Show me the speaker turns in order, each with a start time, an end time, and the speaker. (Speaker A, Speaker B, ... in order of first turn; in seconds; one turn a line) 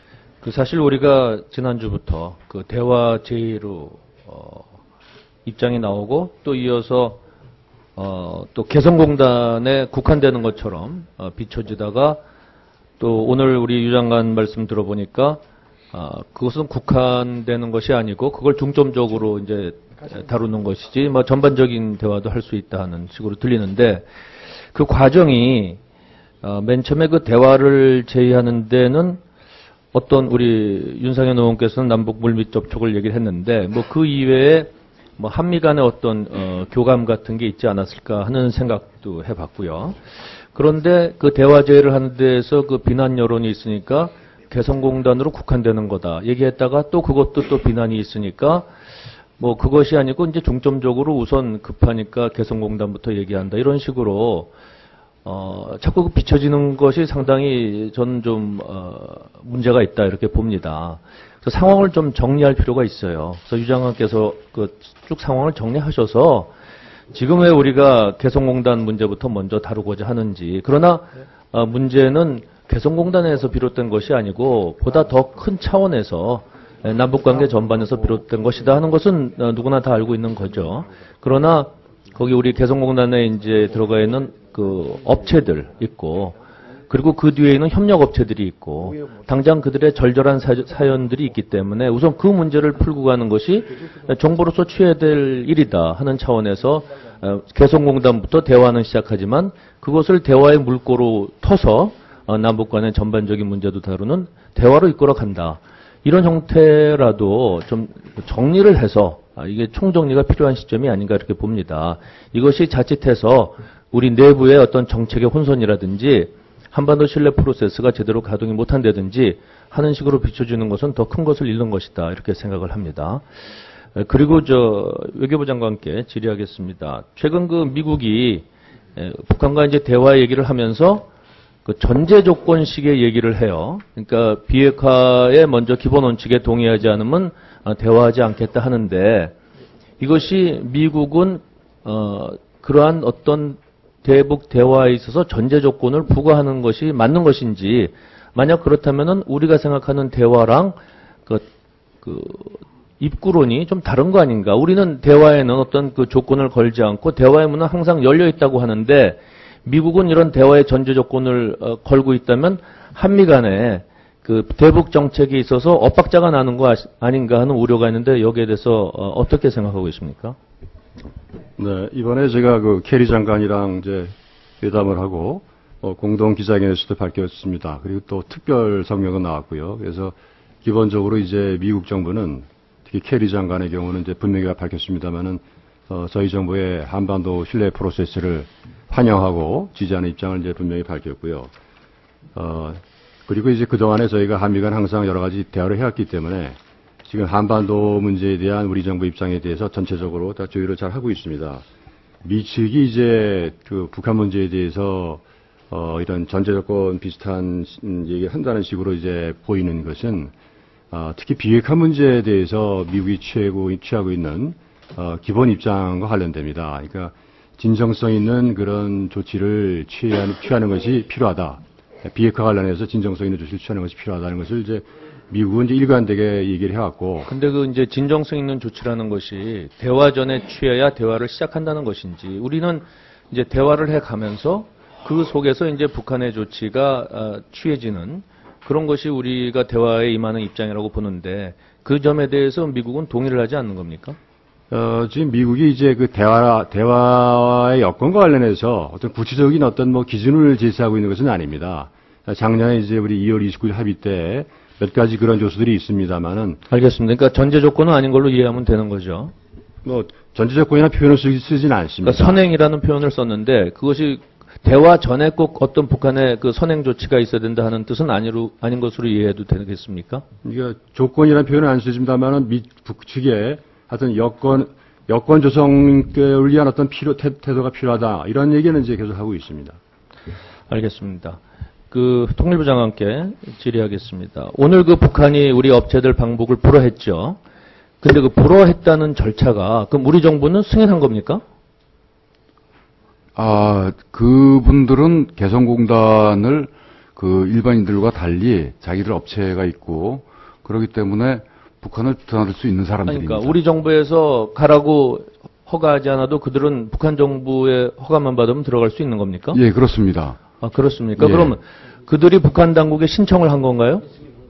Speaker A: 0.4-4.7
Speaker A: 5.5-7.2
Speaker A: 8.0-12.2
Speaker A: 13.0-15.4
Speaker A: 15.9-24.1
Speaker A: 24.7-25.8
Speaker A: 26.4-29.2
Speaker A: 29.9-40.0
Speaker A: 40.5-48.7
Speaker A: 49.4-54.5
Speaker A: 55.2-66.5
Speaker A: 67.1-86.3
Speaker A: 86.9-123.2
Speaker A: 124.0-131.1
Speaker A: 131.7-139.4
Speaker A: 140.0-151.5
Speaker A: 152.0-170.4
Speaker B: 171.6-191.5
Speaker B: 192.3-201.6
Speaker B: 202.2-210.3
Speaker B: 210.9-227.3
Speaker A: 227.3-244.2
Speaker B: 244.7-256.6
Speaker A: 256.7-259.3
Speaker B: 259.9-262.4
Speaker A: 262.1-270.2
Speaker B: 270.4-279.8
Speaker A: 280.7-281.4
Speaker A: 281.9-287.4
Speaker A: 288.0-291.4
Speaker C: 293.4-303.6
Speaker A: 303.1-309.6
Speaker C: 309.5-310.4
Speaker A: 310.6-314.1
Speaker C: 311.2-311.6